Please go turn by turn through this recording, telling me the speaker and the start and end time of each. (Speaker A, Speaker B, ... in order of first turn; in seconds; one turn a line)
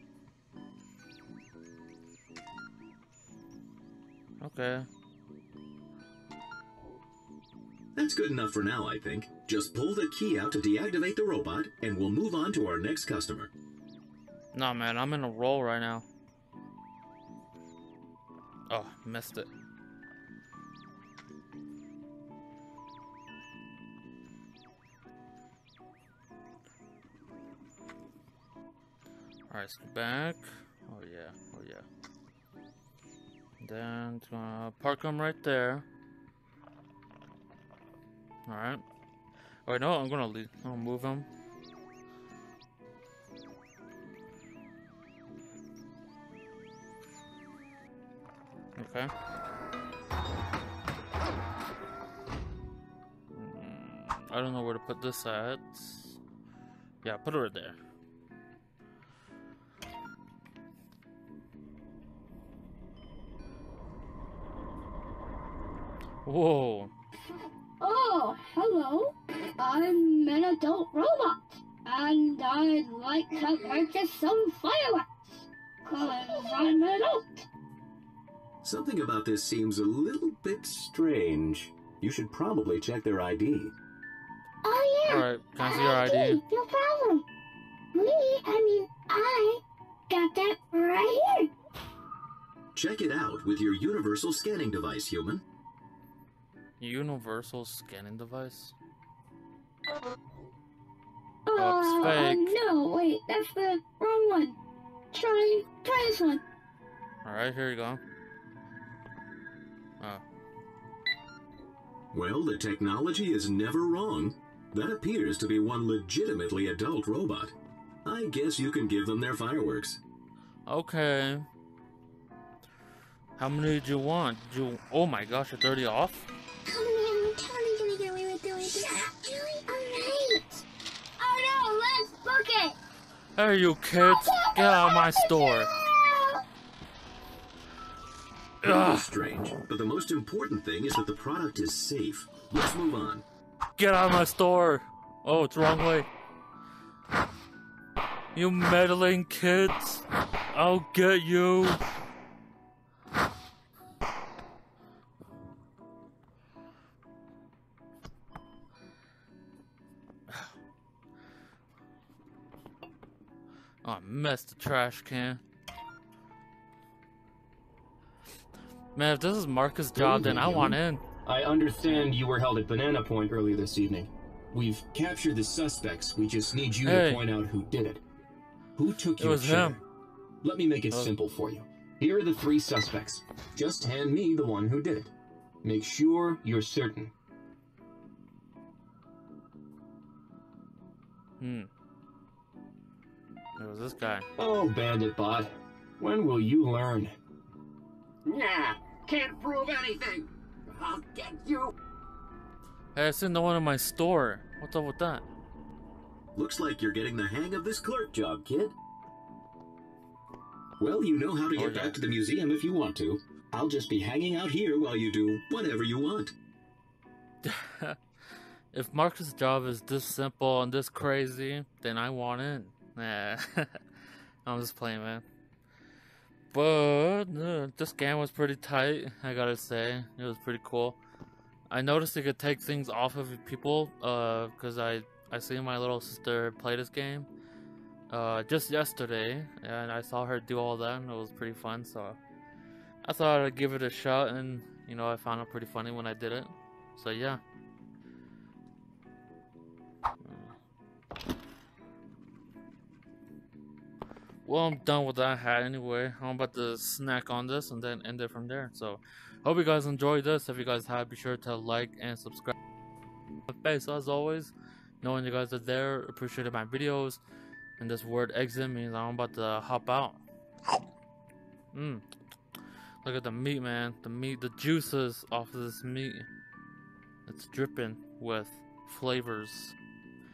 Speaker A: 4.4-4.9
Speaker B: 7.9-13.5
Speaker A: 14.5-16.1
Speaker A: 18.7-19.5
Speaker A: 29.5-31.9
Speaker A: 33.6-35.9
Speaker A: 38.5-38.8
Speaker A: 39.6-41.3
Speaker A: 48.8-49.1
Speaker A: 53.3-56.2
Speaker A: 57.0-57.8
Speaker A: 66.2-66.9
Speaker C: 67.8-77.5
Speaker B: 78.6-83.7
Speaker C: 84.6-87.2
Speaker A: 85.1-86.4
Speaker C: 87.9-91.5
Speaker B: 92.7-95.4
Speaker A: 96.8-98.7
Speaker C: 101.5-104.6
Speaker A: 101.5-102.5
Speaker C: 105.1-106.4
Speaker A: 107.2-108.0
Speaker B: 112.1-120.0
Speaker A: 120.7-121.5
Speaker A: 123.4-126.3
Speaker C: 126.7-130.6
Speaker C: 131.2-132.8
Speaker A: 133.4-135.7
Speaker C: 134.0-136.4
Speaker A: 138.6-139.1
Speaker B: 138.6-143.2
Speaker A: 143.8-146.1
Speaker A: 148.3-151.8
Speaker A: 163.8-165.4
Speaker A: 168.9-171.0
Speaker D: 169.9-178.0
Speaker A: 176.8-177.4
Speaker D: 178.8-179.8
Speaker A: 179.2-179.8
Speaker D: 180.4-185.1
Speaker D: 185.6-187.1
Speaker A: 191.4-191.7
Speaker A: 193.6-194.3
Speaker D: 194.4-197.1
Speaker E: 198.2-201.7
Speaker A: 202.9-205.2
Speaker B: 206.3-208.8
Speaker B: 210.8-216.3
Speaker A: 211.5-212.0
Speaker A: 217.4-218.0
Speaker A: 218.7-223.8
Speaker A: 224.4-225.2
Speaker A: 226.5-231.0
Speaker A: 231.7-237.3
Speaker A: 238.1-242.2
Speaker A: 243.0-247.4
Speaker A: 250.2-250.5
Speaker A: 254.4-262.5
Speaker A: 263.5-267.2
Speaker A: 267.8-270.2
Speaker A: 271.7-272.0
Speaker A: 273.0-276.3
Speaker A: 277.2-279.7